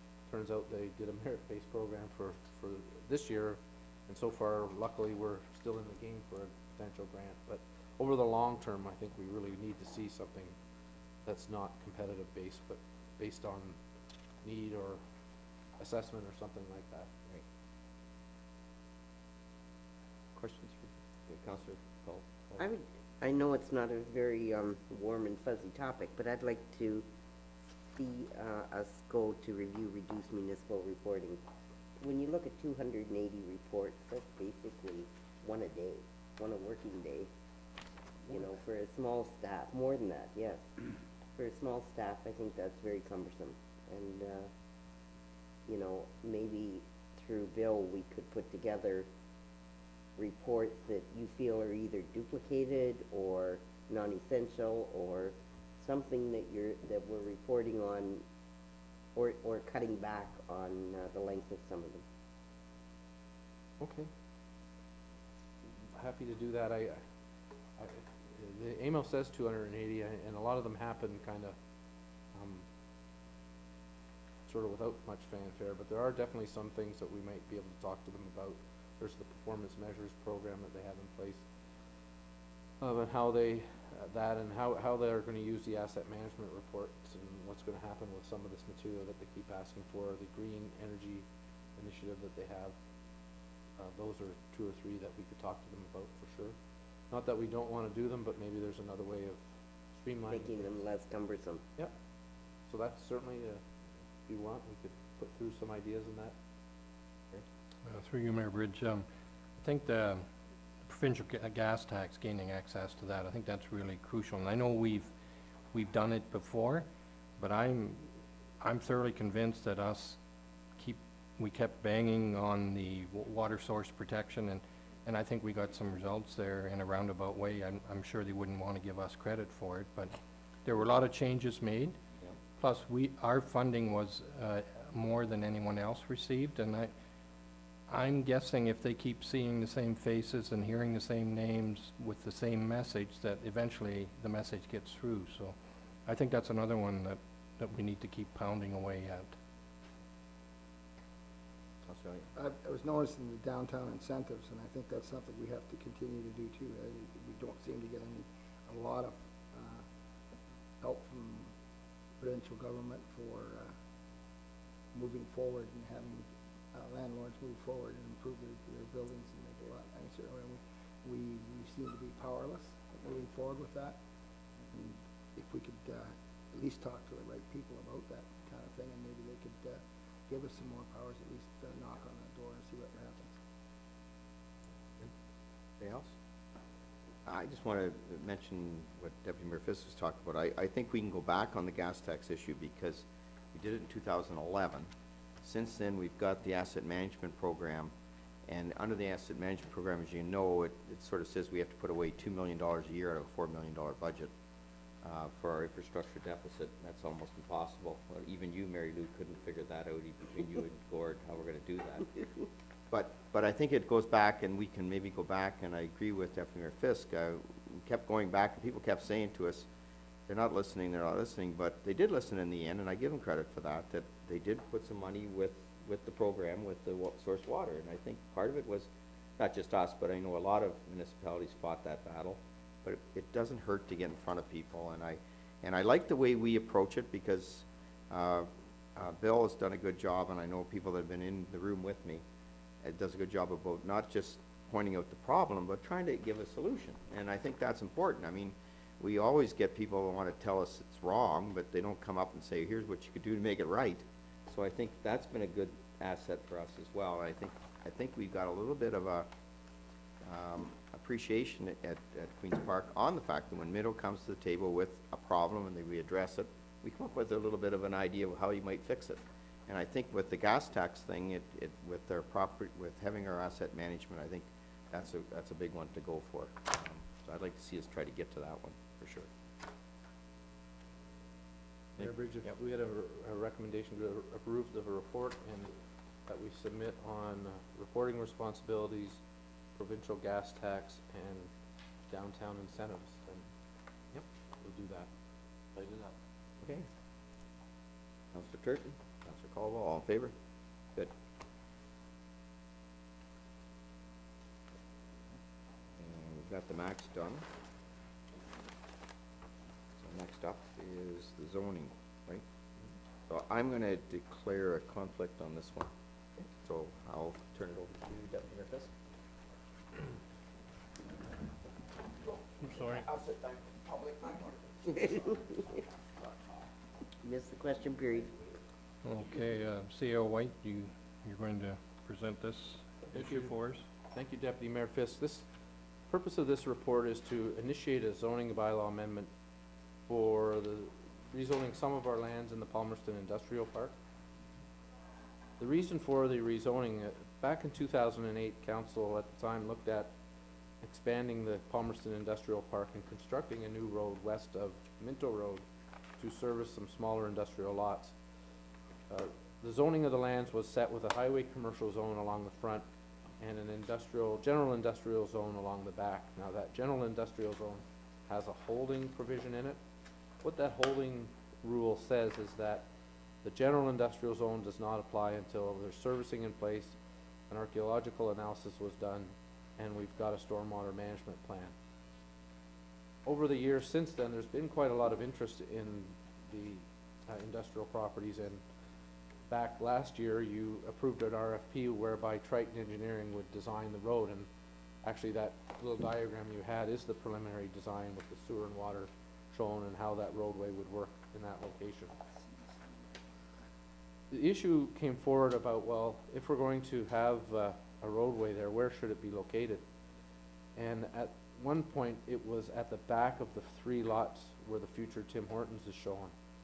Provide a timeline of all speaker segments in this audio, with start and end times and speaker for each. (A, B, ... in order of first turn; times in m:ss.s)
0:00.3-0:10.6 A
0:11.2-0:13.8 A
0:14.4-0:15.0 A
0:15.8-0:17.1 A
0:20.4-0:22.6 B
0:22.6-0:27.0 C
0:28.0-0:31.4 C
0:32.0-0:37.3 C
0:38.3-0:40.6 C
0:41.4-0:44.5 C
0:45.7-0:49.1 C
0:50.2-0:58.2 C
0:59.1-1:02.0 C
1:03.8-1:04.1 A
1:05.9-1:07.0 A
1:07.8-1:11.6 A
1:12.3-1:12.6 A
1:14.5-1:21.4 A
1:22.8-1:31.2 A
1:31.8-1:32.7 A
1:33.8-1:36.5 A
1:37.1-1:39.4 A
1:40.0-1:40.7 A
1:40.2-1:41.6 C
1:42.7-1:43.6 A
1:44.3-1:46.3 A
1:47.8-1:49.1 D
1:49.6-1:50.2 D
1:50.8-1:55.1 D
1:55.7-1:56.9 D
1:57.4-2:00.2 D
2:00.8-2:12.0 D
2:12.6-2:16.9 D
2:17.9-2:25.5 D
2:26.0-2:29.3 D
2:31.8-2:32.3 B
2:32.3-2:39.8 E
2:40.8-2:41.5 E
2:42.2-2:43.8 E
2:44.9-2:54.0 E
2:54.7-3:03.4 E
3:05.8-3:06.1 B
3:07.2-3:14.9 B
3:15.4-3:17.9 B
3:18.5-3:24.3 B
3:25.0-3:32.1 B
3:32.9-3:39.7 B
3:40.3-4:02.2 B
4:02.8-4:19.3 B
4:20.2-4:39.3 B
4:42.0-4:42.6 B
4:42.0-4:45.7 A
4:46.3-4:49.2 A
4:49.7-4:51.5 A
4:52.1-4:53.4 A
4:54.1-4:55.1 A
4:55.7-4:56.1 A
4:56.6-4:56.9 B
4:58.3-5:00.3 B
5:06.0-5:07.4 B
5:10.0-5:12.4 B
5:13.3-5:15.9 B
5:16.5-5:18.9 B
5:22.6-5:23.0 D
5:22.9-5:25.2 B
5:27.2-5:28.3 C
5:29.0-5:33.8 D
5:33.1-5:33.5 A
5:34.1-5:35.5 A
5:36.1-5:39.3 A
5:40.1-5:43.9 A
5:45.6-5:50.1 A
5:50.8-5:55.6 A
5:56.2-5:58.1 A
5:59.1-6:02.8 A
6:03.4-6:09.8 A
6:10.4-6:12.9 A
6:13.4-6:17.0 A
6:17.5-6:21.7 A
6:23.2-6:28.6 A
6:29.5-6:34.5 A
6:35.0-6:42.1 A
6:44.3-6:49.8 A
6:50.8-6:56.3 A